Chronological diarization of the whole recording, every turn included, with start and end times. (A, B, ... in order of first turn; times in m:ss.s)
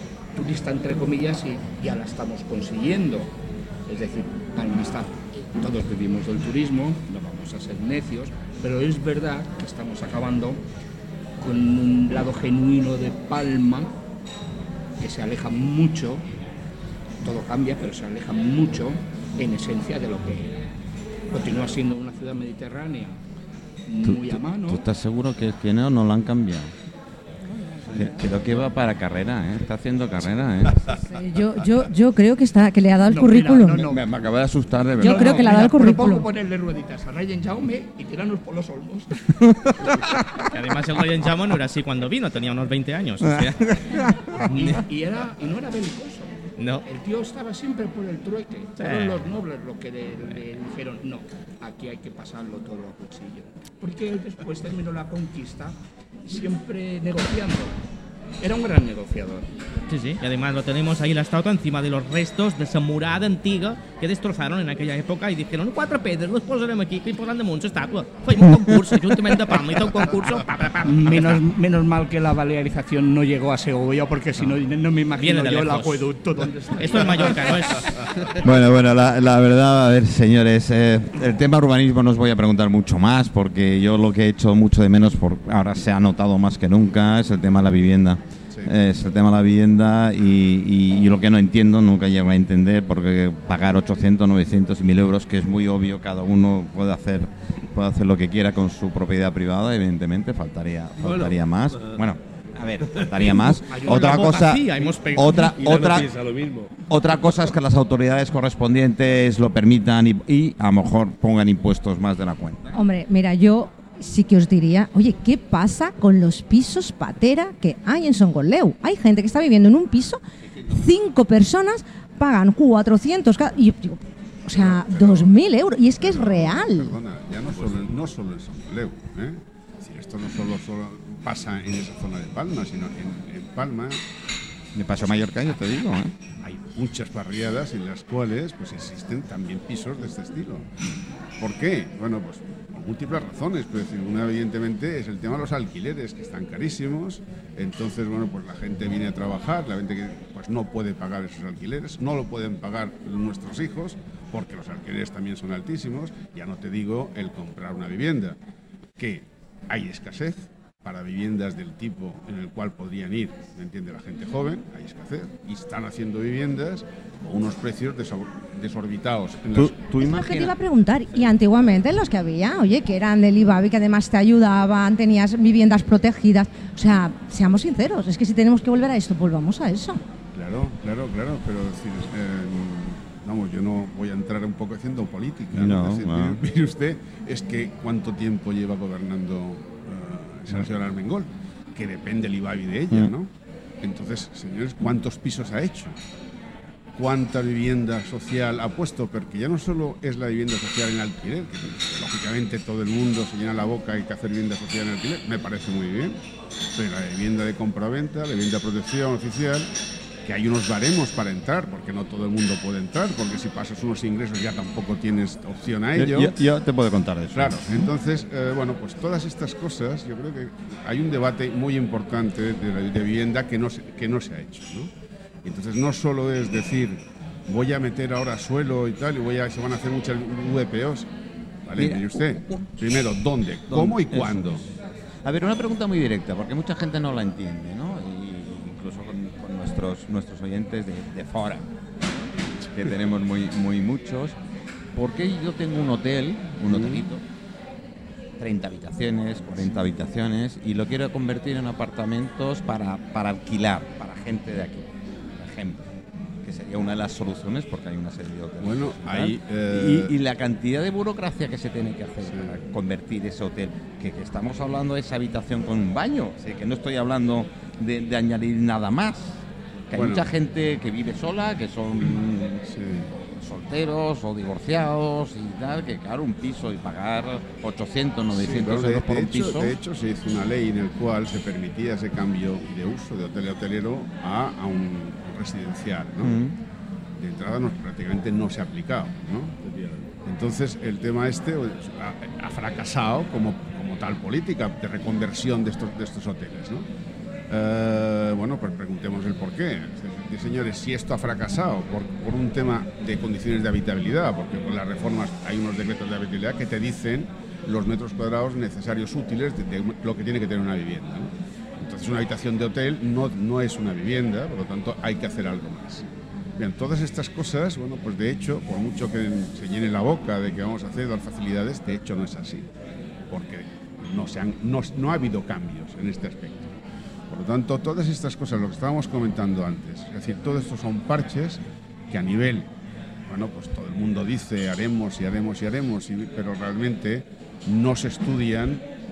0:00.4-0:03.3 A
0:03.9-0:10.6 A
0:11.4-0:13.9 A
0:15.0-0:16.2 A
0:17.2-0:20.7 A
0:21.3-0:23.2 A
0:23.9-0:24.8 A
0:24.0-0:26.7 B
0:27.4-0:28.3 C
0:27.9-0:30.9 B
0:30.9-0:33.9 C
0:33.1-0:34.1 A
0:33.8-0:35.5 B
0:35.0-0:39.3 A
0:35.0-0:36.3 C
0:39.8-0:40.5 B
0:40.4-0:44.0 D
0:43.3-0:44.3 B
0:44.4-0:46.3 A
0:46.6-0:46.8 D
0:46.8-0:57.8 A
0:48.8-0:49.3 D
0:58.4-0:59.5 A
0:59.9-1:11.4 D
1:10.8-1:17.9 A
1:15.2-1:16.2 D
1:16.8-1:18.0 D
1:18.3-1:46.1 B
1:41.0-1:42.0 E
1:42.9-1:43.3 E
1:43.4-1:45.8 D
1:43.7-1:44.9 A
1:45.4-1:46.7 E
1:46.9-1:52.7 B
1:52.7-2:07.0 C
2:04.5-2:05.3 F
2:06.0-2:14.0 F
2:14.8-2:16.1 B
2:16.4-2:20.7 F
2:21.4-2:38.4 F
2:39.0-2:49.8 F
2:49.5-2:50.5 B
2:50.0-3:00.0 C
3:00.3-3:13.3 F
3:05.5-3:06.4 B
3:13.8-3:16.0 F
3:17.0-3:26.2 F
3:26.8-3:29.7 F
3:30.2-3:36.4 F
3:36.0-3:37.8 B
3:37.4-3:44.9 F
3:45.4-3:51.1 F
3:51.7-3:54.6 F
3:51.8-3:52.7 B
3:53.7-3:54.7 B
3:55.2-4:01.7 B
4:02.7-4:04.4 B
4:05.0-4:07.2 B
4:06.7-4:07.0 F
4:08.4-4:15.9 B
4:09.6-4:09.9 F
4:16.4-4:29.4 B
4:18.6-4:20.1 F
4:22.3-4:22.6 F
4:29.9-4:32.6 B
4:29.9-4:30.3 F
4:32.7-4:33.1 F
4:33.4-4:39.8 B
4:38.3-4:46.4 F
4:46.2-4:46.6 B
4:47.2-4:49.6 F
4:49.6-4:50.1 E
4:50.2-4:56.9 F
4:57.5-5:16.0 F
5:16.6-5:22.7 F
5:23.3-5:26.7 F
5:27.3-5:32.7 F
5:33.3-5:38.8 F